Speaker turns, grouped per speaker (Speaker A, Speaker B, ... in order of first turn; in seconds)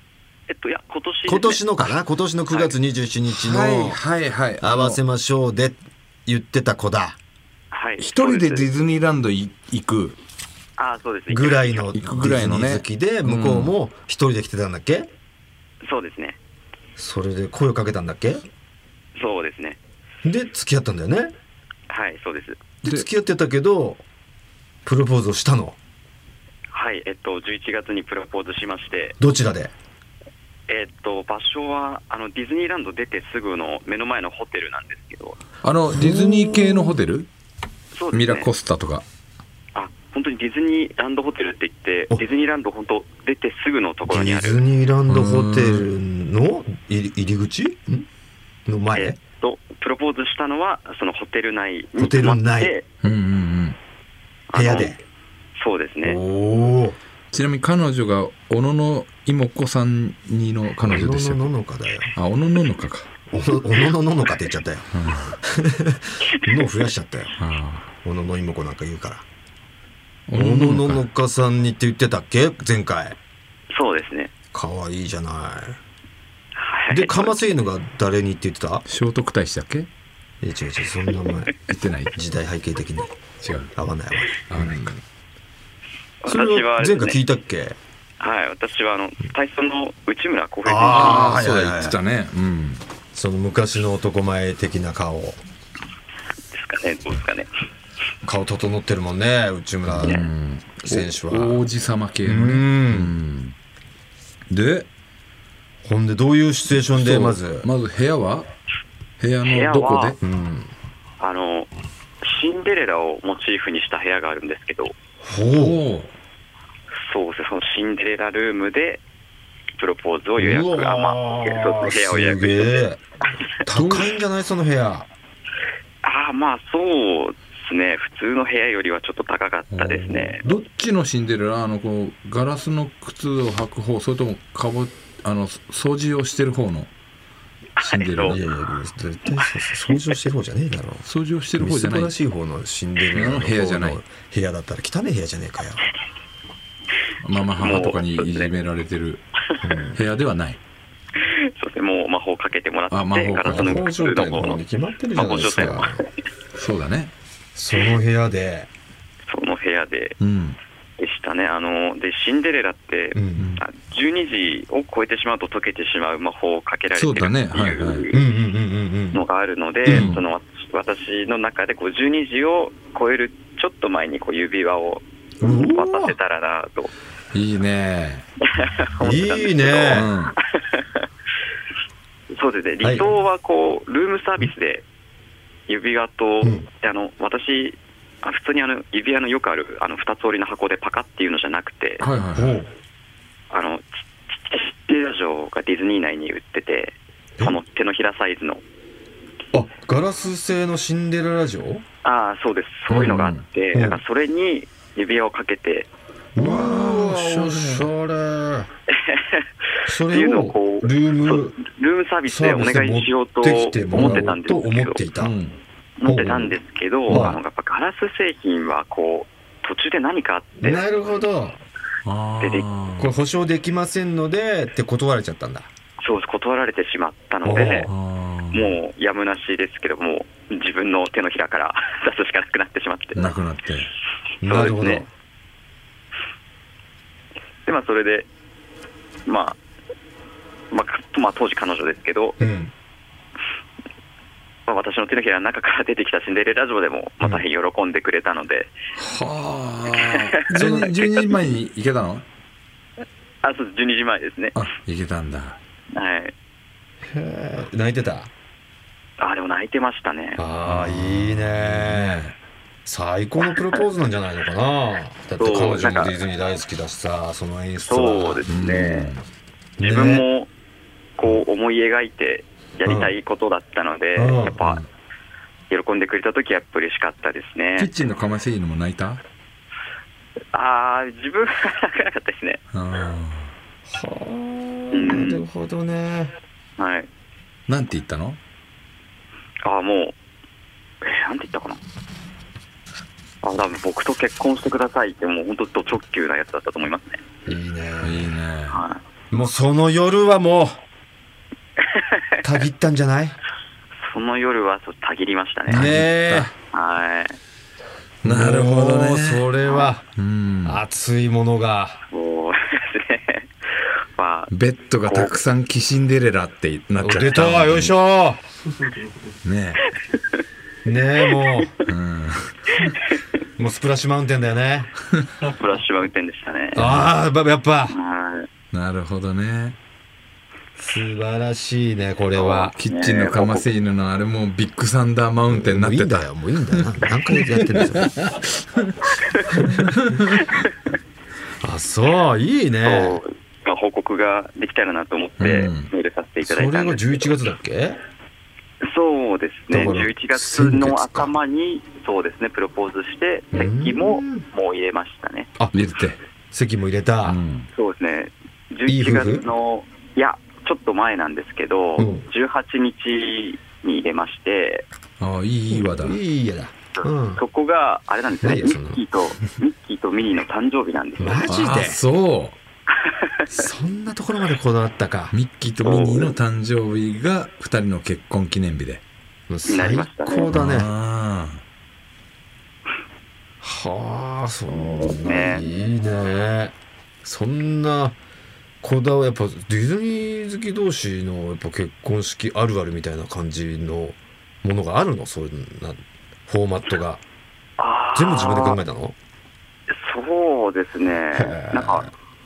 Speaker A: 0.5-1.6, 7.7-8.7, 10.8-11.9, 15.8-16.4, 19.2-19.8, 21.9-22.6, 26.7-29.2, 30.7-35.4, 38.0-38.5, 39.8-44.6, 49.0-52.9, 54.5-55.0, 55.6-56.2, 73.7-74.3, 76.6-77.3, 86.2-87.2, 88.2-91.4, 96.5-97.5, 109.5-110.2, 111.2-111.7, 112.2-115.0, 117.1-119.0, 119.8-122.8, 126.0-130.4, 137.8-138.4, 147.6-148.5, 151.2-154.6, 155.2-156.1, 159.3-160.2, 161.0-168.2, 169.1-176.9, 178.6-181.0, 182.4-184.8, 185.7-192.0, 193.5-198.6, 202.0-205.9, 208.9-209.4, 210.1-215.0, 216.0-220.8, 222.4-222.7, 226.0-227.9, 228.5-233.3, 234.4-235.1, 237.7-238.3, 239.3-239.6, 240.7-242.4, 244.7-248.7, 250.0-250.9, 253.4-254.6, 255.9-256.3, 259.2-260.4, 265.4-266.1, 267.9-269.1, 269.8-270.5, 271.2-274.9, 275.7-277.9, 280.5-282.6, 284.9-285.4, 286.8-287.1, 289.6-290.1, 291.0-291.8, 293.4-297.2, 298.7-299.0, 301.9-302.2, 304.0-305.9, 306.7-307.4, 312.1-313.5, 314.2-314.5, 315.1-315.4, 325.4-326.8, 327.9-328.5, 332.3-333.7, 342.8-347.3, 348.8-355.5, 357.8-364.9, 367.0-371.5, 373.0-373.4, 375.8-376.3, 379.7-380.5, 384.7-385.6, 397.8-398.8, 399.9-402.1
Speaker B: 1.3-4.0, 4.6-7.2, 11.3-15.1, 17.0-18.4, 20.2-21.3, 22.8-24.0, 24.9-25.8, 29.2-29.7, 36.0-37.0, 44.1-48.1, 48.7-49.2, 52.0-52.7, 54.5-55.0, 56.0-57.0, 60.8-62.1, 63.3-67.3, 68.0-69.2, 70.3-73.2, 74.5-75.8, 76.9-78.9, 80.4-81.5, 82.1-83.1, 83.8-85.0, 86.3-87.8, 90.7-92.0, 93.1-95.4, 98.2-100.2, 100.8-101.7, 102.2-103.2, 105.8-107.7, 110.2-110.7, 115.2-115.8, 120.4-123.0, 123.5-125.1, 138.2-145.8, 149.6-150.0, 153.4-156.0, 157.6-158.7, 163.2-163.5, 168.1-169.2, 169.8-170.1, 175.4-176.2, 179.0-180.1, 182.8-183.1, 192.3-192.7, 199.5-201.8, 203.7-204.0, 206.3-208.7, 209.9-211.6, 212.3-215.3, 216.1-216.6, 217.1-217.4, 220.6-221.6, 223.0-225.7, 227.4-227.9, 234.4-235.1, 242.4-242.7, 257.1-258.3, 260.4-262.3, 262.9-268.4, 269.8-270.2, 272.9-273.1, 274.2-274.6, 283.9-286.3, 297.5-298.4, 299.3-300.8, 302.4-303.4, 305.7-306.5, 308.2-310.0, 310.6-312.0, 317.0-318.4, 320.9-321.7, 323.6-324.9, 326.8-328.0, 330.8-332.7, 335.5-338.2, 339.5-339.9, 341.6-343.2, 346.4-348.0, 349.7-351.3, 353.5-354.4, 356.5-357.4, 358.9-359.4, 362.0-362.3, 365.7-367.4, 368.4-369.0, 371.2-372.0, 373.5-375.3, 379.5-380.9, 383.6-388.2, 388.8-397.2, 398.1-399.1, 401.3-402.1
Speaker C: 3.3-5.0, 8.0-10.2, 11.9-13.8, 35.6-37.3, 38.1-39.0, 45.1-45.9, 53.0-53.8, 57.3-61.5, 62.1-63.1, 64.9-65.4, 67.4-67.9, 70.3-71.0, 78.9-79.9, 81.7-82.2, 83.4-83.7, 84.5-85.0, 90.8-92.8, 99.9-103.6, 104.5-104.9, 106.9-108.5, 109.2-110.2, 115.5-116.1, 123.7-124.1, 129.7-136.9, 137.8-138.4, 141.1-142.2, 143.1-144.0, 147.2-149.2, 149.9-150.6, 152.9-153.9, 156.6-157.1, 160.2-160.6, 163.4-163.6, 166.9-168.1, 169.9-170.2, 177.3-178.3, 179.9-180.4, 192.0-192.6, 202.9-203.4, 206.4-207.9, 213.9-214.3, 215.2-215.6, 217.1-217.3, 222.1-223.1, 227.8-228.8, 233.1-233.9, 249.0-252.3, 254.6-255.6, 260.6-262.3, 268.5-269.2, 274.6-274.9, 277.8-279.2, 282.7-283.5, 287.7-288.4, 298.0-298.8, 305.7-306.5, 308.2-309.5, 310.2-310.8, 314.5-317.9, 319.4-319.8, 321.9-322.9, 326.8-327.1, 328.7-329.8, 332.8-339.1, 339.8-340.4, 345.4-345.9, 355.7-356.2, 357.2-357.7, 365.2-366.2, 371.5-372.6, 375.3-379.0, 380.5-381.6